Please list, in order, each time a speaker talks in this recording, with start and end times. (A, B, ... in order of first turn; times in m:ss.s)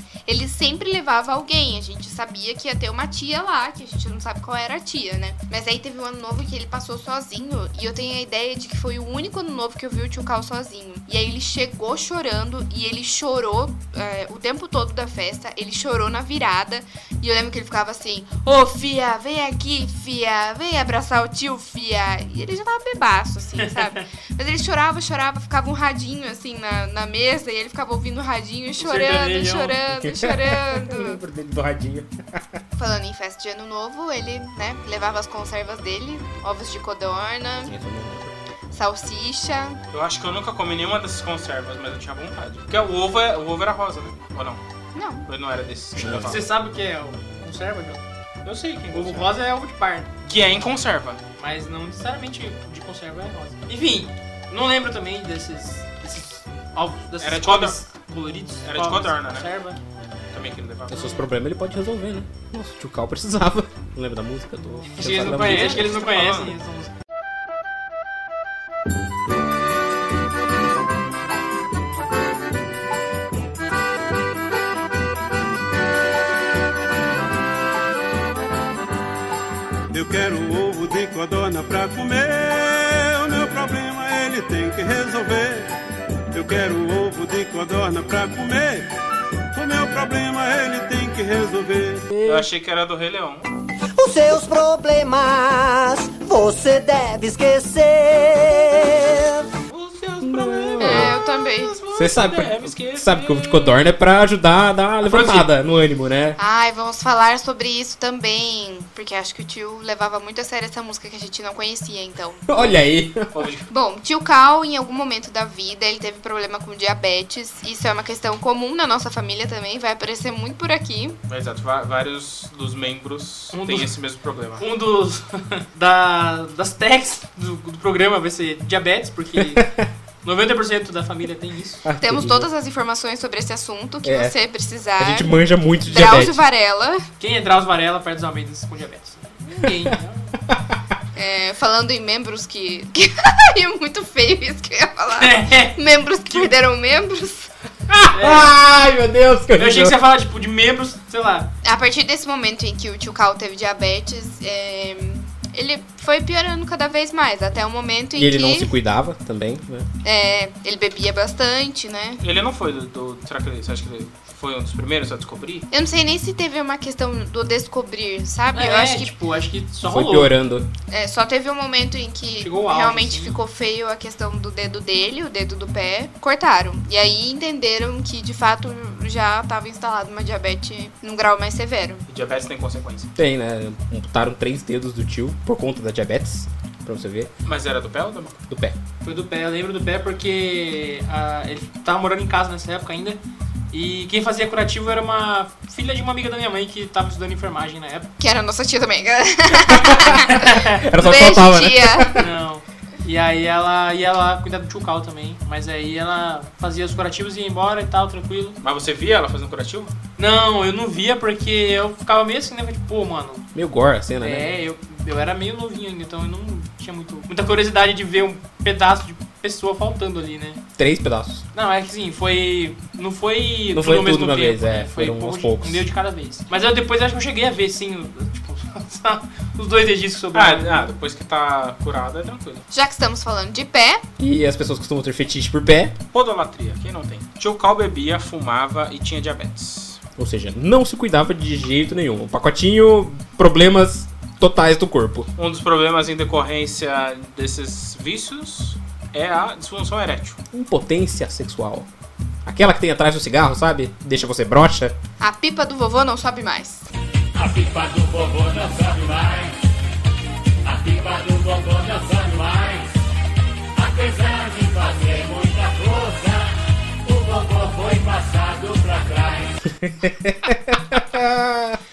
0:00.2-0:31.2 A
0:23.6-0:24.1 B
0:28.8-0:29.8 B
0:29.9-0:32.6 C
0:32.8-0:37.8 A
0:37.6-0:38.3 C
0:38.7-0:39.8 A
0:39.9-0:44.6 D
0:44.9-0:45.2 A
0:45.3-0:46.4 D
0:46.0-0:46.5 C
0:46.1-0:48.0 B
0:48.4-0:49.3 D
0:48.9-0:50.1 B
0:50.3-0:51.2 D
0:51.4-0:59.8 B
0:57.2-0:57.8 D
0:58.6-0:59.5 D
1:00.3-1:01.2 D
1:00.9-1:06.0 C
1:04.9-1:06.9 B
1:05.0-1:06.5 D
1:19.9-1:25.7 E
1:26.3-1:28.9 E
1:29.5-1:32.0 E
1:32.1-1:32.5 C
1:32.2-1:33.5 D
1:34.0-1:39.5 F
1:39.7-1:43.8 D
1:40.2-1:41.2 C
1:40.8-1:41.8 A
1:41.9-1:46.4 C
1:45.0-1:45.5 B
1:46.4-1:52.8 A
1:52.5-1:53.3 C
1:53.3-1:53.7 D
1:53.7-2:01.2 A
2:01.3-2:04.6 D
2:03.5-2:03.9 B
2:04.6-2:09.7 B
2:09.4-2:09.8 C
2:10.2-2:11.8 B
2:11.8-2:12.5 C
2:12.0-2:15.3 A
2:14.0-2:14.4 C
2:15.0-2:16.4 C
2:15.8-2:17.1 A
2:17.2-2:20.4 B
2:19.6-2:19.9 C
2:20.5-2:20.8 C
2:21.2-2:27.5 A
2:25.2-2:26.5 B
2:27.9-2:30.0 C
2:28.1-2:28.6 B
2:29.6-2:31.5 B
2:31.6-2:38.7 A
2:38.1-2:39.9 C
2:40.0-2:42.2 A
2:42.2-2:45.6 D
2:45.7-2:49.1 A
2:48.5-2:50.3 B
2:49.8-2:50.7 C
2:50.9-3:02.0 A
2:52.4-2:53.4 B
3:02.1-3:03.1 D
3:03.2-3:07.3 C
3:07.5-3:08.4 D
3:08.5-3:08.8 C
3:09.0-3:13.2 B
3:13.7-3:18.1 B
3:18.2-3:22.2 A
3:19.6-3:22.3 C
3:20.2-3:20.8 B
3:22.2-3:28.6 B
3:28.6-3:29.9 D
3:30.2-3:33.4 B
3:33.6-3:34.5 C
3:34.2-3:40.6 B
3:40.8-3:41.4 C
3:41.5-3:50.9 B
3:43.7-3:45.9 C
3:50.3-3:52.6 D
3:52.7-3:54.0 A
3:54.2-3:56.0 C
3:56.1-4:00.0 D
4:00.2-4:05.3 C
4:05.4-4:10.4 D
4:10.5-4:11.9 C
4:12.4-4:14.9 C
4:15.2-4:16.9 A
4:17.4-4:19.6 F
4:20.6-4:22.9 F
4:23.8-4:26.5 F
4:27.0-4:29.5 F
4:29.6-4:31.8 C